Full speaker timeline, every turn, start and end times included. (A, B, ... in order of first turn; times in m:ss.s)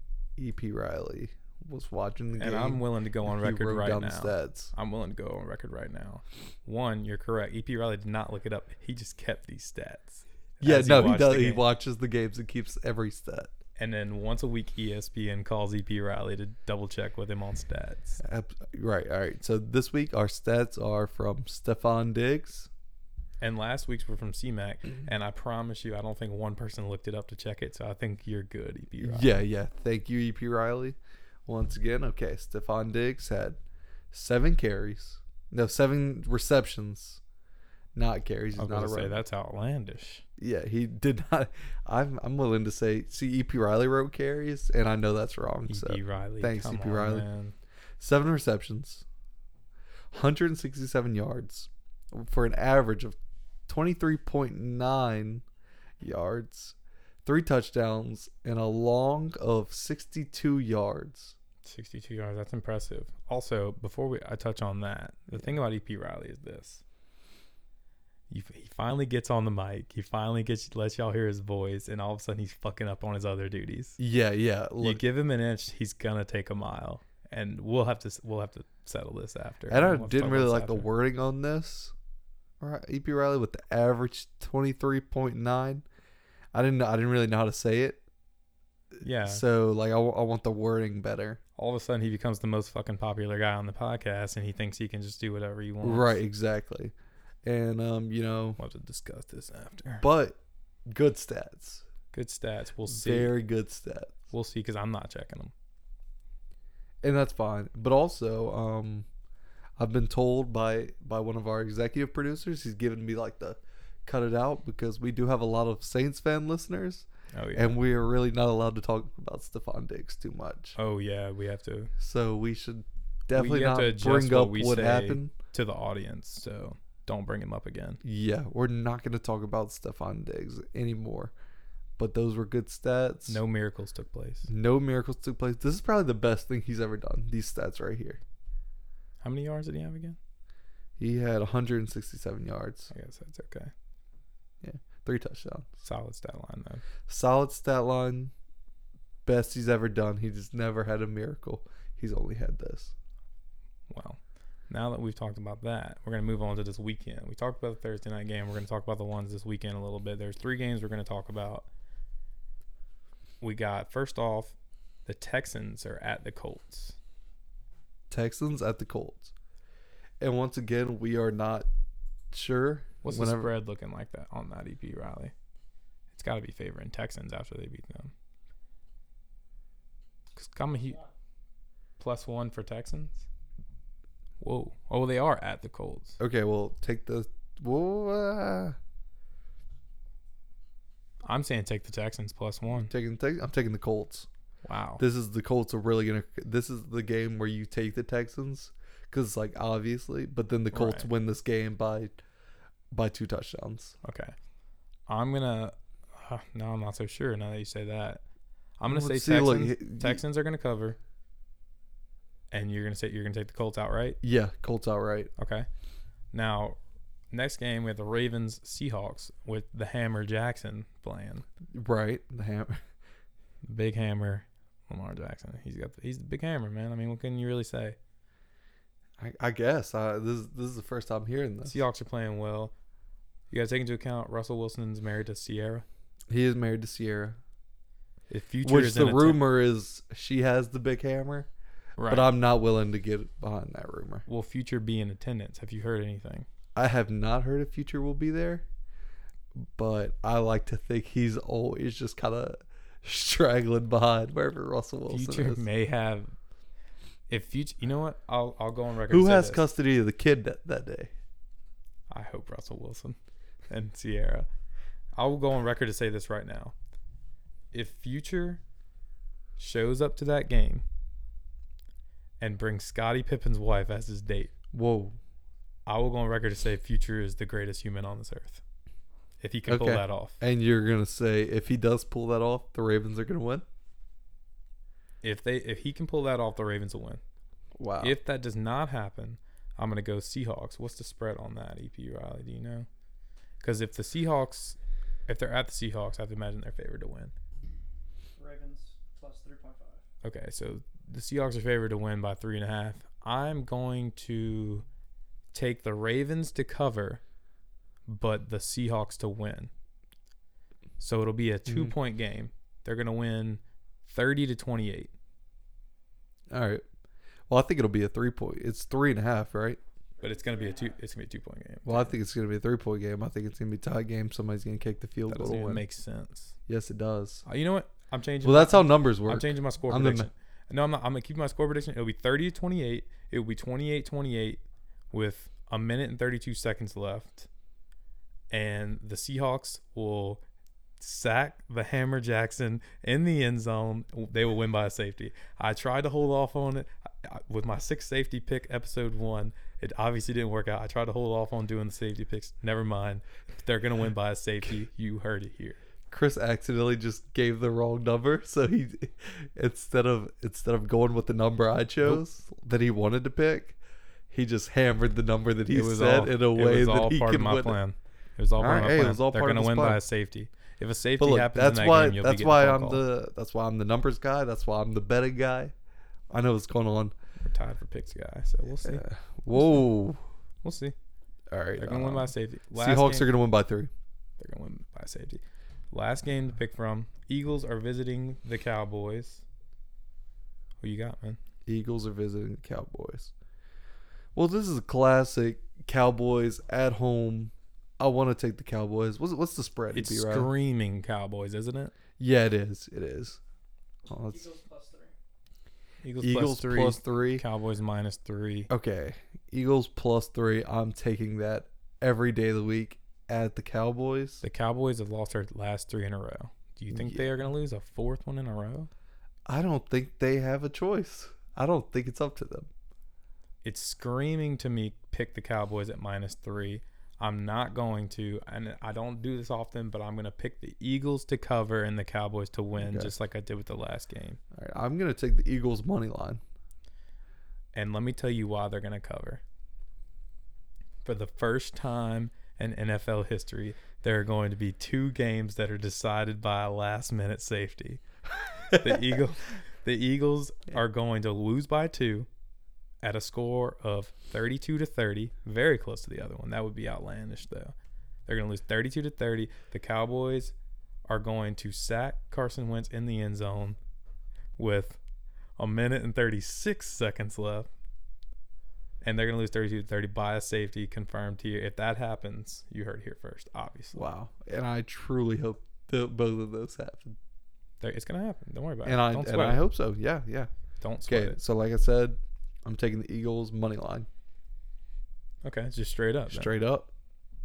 0:00.4-0:04.7 A
0:02.4-0:11.6 B
0:10.6-0:13.5 A
0:13.8-0:18.2 B
0:18.2-0:22.7 A
0:23.4-0:29.4 B
0:29.0-0:33.6 A
0:34.1-0:37.2 A
0:38.0-0:39.2 A
0:38.6-0:40.2 B
0:40.4-0:47.2 A
0:45.7-0:47.6 B
0:48.0-0:49.0 A
0:50.1-0:55.4 A
0:56.0-1:01.4 A
1:01.6-1:06.8 B
1:08.3-1:14.0 B
1:14.0-1:15.0 A
1:14.8-1:20.9 B
1:19.7-1:21.9 A
1:22.6-1:25.8 A
1:26.5-1:28.0 A
1:29.0-1:29.4 B
1:29.2-1:31.4 A
1:31.6-1:36.2 B
1:35.8-1:36.9 A
1:37.4-1:38.6 A
1:38.6-1:40.1 B
1:40.0-1:41.8 A
1:42.1-1:43.3 B
1:42.9-1:44.2 A
1:44.3-1:45.5 B
1:47.0-1:49.1 A
1:49.8-2:00.8 A
1:57.3-1:57.8 B
2:00.8-2:01.9 B
2:02.0-2:05.3 A
2:03.3-2:08.0 B
2:08.0-2:11.3 A
2:12.0-2:13.4 A
2:13.3-2:14.5 B
2:14.5-2:18.2 A
2:19.2-2:20.2 B
2:21.0-2:22.9 A
2:22.9-2:23.7 B
2:24.6-2:25.7 A
2:25.8-2:26.8 B
2:27.1-2:28.3 A
2:29.3-2:32.9 A
2:33.9-2:41.7 B
2:43.4-2:44.6 B
2:45.1-2:47.0 B
2:48.1-2:49.3 A
2:50.2-2:51.7 A
2:52.3-2:53.5 A
2:53.0-2:55.3 B
2:56.1-2:58.1 B
3:00.4-3:01.0 B
3:02.0-3:03.3 B
3:04.4-3:06.2 B
3:06.2-3:08.8 A
3:11.2-3:12.9 B
3:12.8-3:14.3 A
3:14.6-3:15.0 B
3:15.0-3:22.1 A
3:20.7-3:21.1 B
3:22.9-3:24.0 A
3:24.0-3:24.3 B
3:25.1-3:28.2 B
3:28.8-3:31.0 B
3:28.9-3:30.2 A
3:32.5-3:34.2 B
3:34.2-3:35.3 A
3:35.4-3:35.7 B
3:36.3-3:36.8 B
3:37.3-3:41.4 B
3:41.7-3:42.8 A
3:43.6-3:48.0 B
3:49.2-3:51.8 A
3:51.6-3:52.7 B
3:53.5-3:55.8 B
3:56.3-3:57.4 A
3:58.3-3:59.4 B
3:58.6-4:01.5 A
4:02.0-4:02.3 B
4:02.1-4:04.2 A
4:04.3-4:06.5 B
4:06.8-4:08.7 A
4:09.6-4:15.6 A
4:15.1-4:16.3 B
4:17.3-4:19.6 B
4:19.1-4:21.1 A
4:22.1-4:23.2 B
4:23.7-4:24.5 B
4:25.2-4:26.7 B
4:27.7-4:28.6 B
4:29.6-4:30.8 B
4:32.4-4:34.5 B
4:34.7-4:35.2 A
4:35.9-4:38.6 B
4:39.4-4:40.4 B
4:39.7-4:43.6 A
4:45.2-4:47.2 B
4:47.8-4:48.2 A
4:48.0-4:52.9 B
4:53.6-4:57.3 B
4:58.4-5:00.0 C
5:00.2-5:04.8 B
5:05.5-5:07.2 B
5:08.1-5:09.7 B
5:11.0-5:15.1 B
5:11.7-5:11.9 A
5:16.5-5:16.8 A
5:17.5-5:19.8 A
5:20.2-5:21.0 C
5:20.2-5:22.1 B
5:21.8-5:25.8 A
5:25.3-5:26.6 B
5:26.7-5:27.4 A
5:27.5-5:37.5 B
5:28.4-5:30.3 A
5:38.5-5:40.4 B
5:41.0-5:55.8 B
5:56.1-6:03.8 A
6:04.3-6:07.8 A
6:05.7-6:13.0 B
6:08.6-6:10.0 A
6:11.2-6:15.7 A
6:16.3-6:17.1 A
6:17.4-6:19.8 B
6:18.8-6:20.2 A
6:20.6-6:21.0 B
6:21.5-6:23.9 A
6:21.8-6:23.3 B
6:24.4-6:29.4 B
6:30.8-6:31.4 B
6:31.7-6:33.3 A
6:34.4-6:40.5 A
6:39.9-6:41.9 B
6:42.2-6:43.4 A
6:44.1-6:44.4 A
6:44.2-6:45.1 C
6:46.0-6:48.7 B
6:46.2-6:47.4 A
6:48.7-6:54.4 A
6:54.4-6:58.9 B
6:56.9-6:57.3 A
6:59.5-7:02.7 A
7:03.6-7:14.4 B
7:12.8-7:13.1 A
7:14.5-7:16.4 A
7:17.7-7:19.4 B
7:21.0-7:28.0 B
7:28.7-7:32.3 B
7:28.7-7:29.0 A
7:33.0-7:37.7 B
7:38.3-7:40.5 B
7:41.1-7:43.8 B
7:44.6-7:45.0 B
7:45.6-7:47.7 B
7:49.0-7:54.0 B
7:53.9-7:57.2 A
7:57.8-7:59.6 B
7:58.8-8:00.5 A
8:00.8-8:01.4 B
8:01.1-8:04.1 A
8:05.4-8:06.5 B
8:06.3-8:06.9 A